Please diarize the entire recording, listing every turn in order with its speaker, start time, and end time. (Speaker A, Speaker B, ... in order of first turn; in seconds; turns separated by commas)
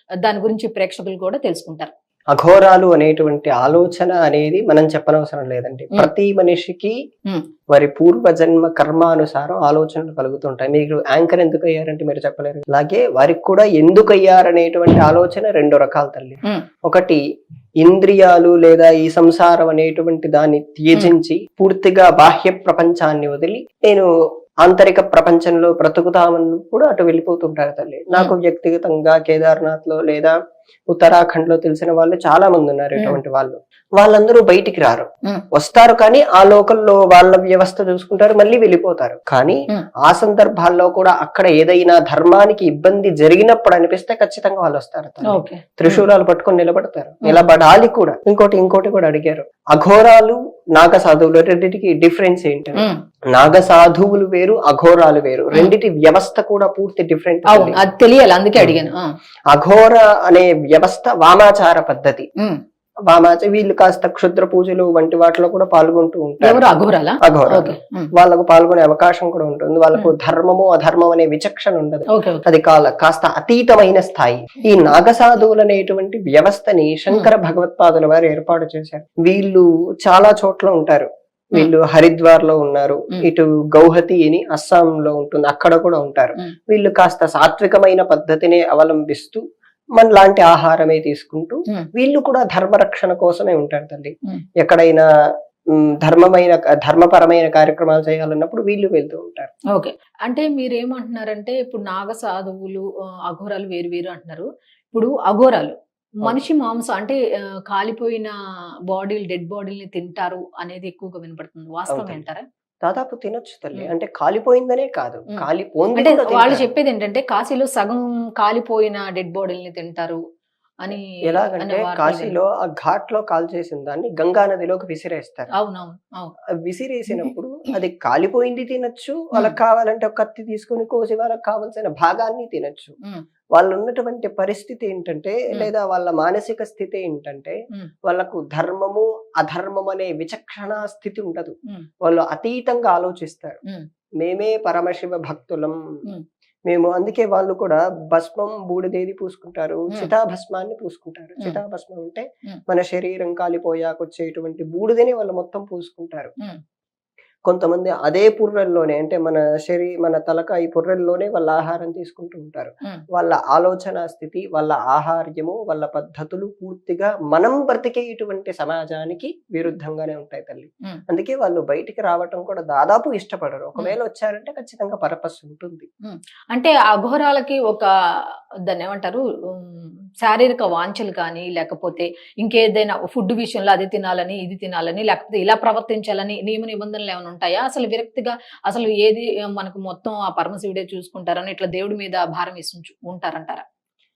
Speaker A: 0.2-1.9, Speaker B: 2.3-6.9, Speaker B: 7.7-17.2, Speaker B: 17.8-24.1, Speaker B: 24.6-30.3, Speaker B: 30.9-57.8, Speaker A: 45.3-46.1, Speaker A: 57.5-59.1, Speaker B: 59.5-62.3, Speaker B: 63.1-66.6, Speaker A: 66.4-68.1, Speaker B: 67.2-89.4, Speaker A: 72.1-72.4, Speaker B: 90.0-95.0, Speaker B: 95.8-99.5, Speaker A: 99.7-108.3, Speaker A: 108.9-112.4, Speaker B: 111.9-112.2, Speaker B: 112.8-116.7, Speaker A: 116.0-120.2, Speaker A: 120.8-122.3, Speaker B: 121.2-125.5, Speaker A: 125.5-126.3, Speaker B: 126.6-132.9, Speaker B: 133.5-143.6, Speaker B: 144.2-145.8, Speaker B: 146.7-156.3, Speaker B: 157.5-175.9, Speaker A: 176.0-177.9, Speaker A: 178.7-193.6